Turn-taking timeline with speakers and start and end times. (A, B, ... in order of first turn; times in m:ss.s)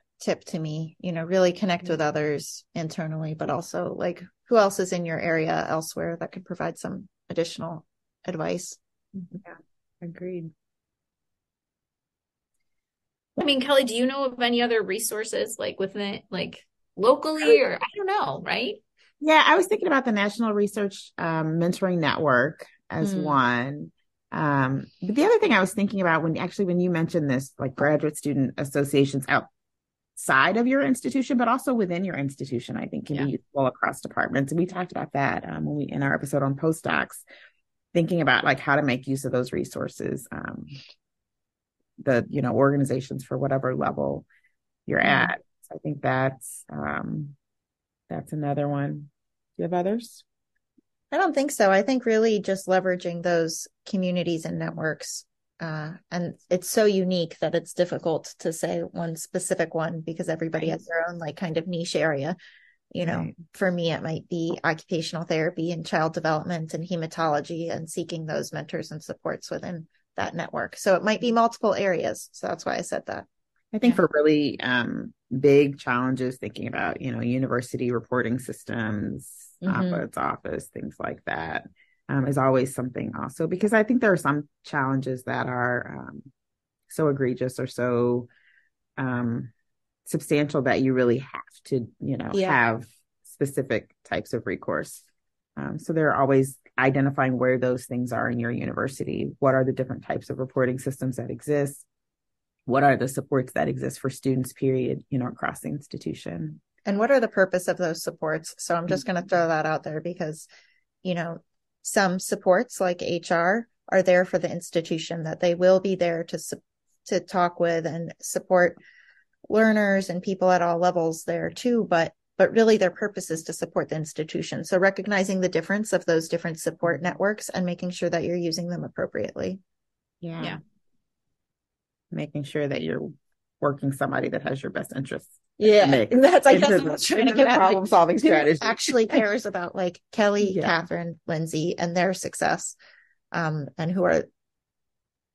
0:00.2-0:08.8 A
0:10.0-0:10.5 B
0:13.4-0:18.8 C
0:19.2-0:29.5 B
0:23.0-0:23.4 A
0:30.2-0:37.2 B
0:37.9-0:40.8 B
0:42.0-0:44.3 B
0:44.9-0:47.4 B
0:45.0-0:45.3 A
0:48.1-0:50.2 B
0:51.1-1:02.4 A
1:02.9-1:13.3 A
1:03.0-1:03.4 B
1:13.7-1:26.3 B
1:19.6-1:20.0 A
1:26.9-1:28.3 B
1:29.0-1:29.5 B
1:30.1-1:35.0 B
1:32.3-1:32.6 A
1:35.6-1:41.9 B
1:42.7-1:46.6 B
1:46.8-1:50.5 A
1:51.0-1:58.8 A
1:59.5-2:09.6 A
2:10.2-2:10.6 B
2:12.1-2:19.2 B
2:15.6-2:22.8 A
2:20.4-2:20.7 B
2:23.3-2:24.3 A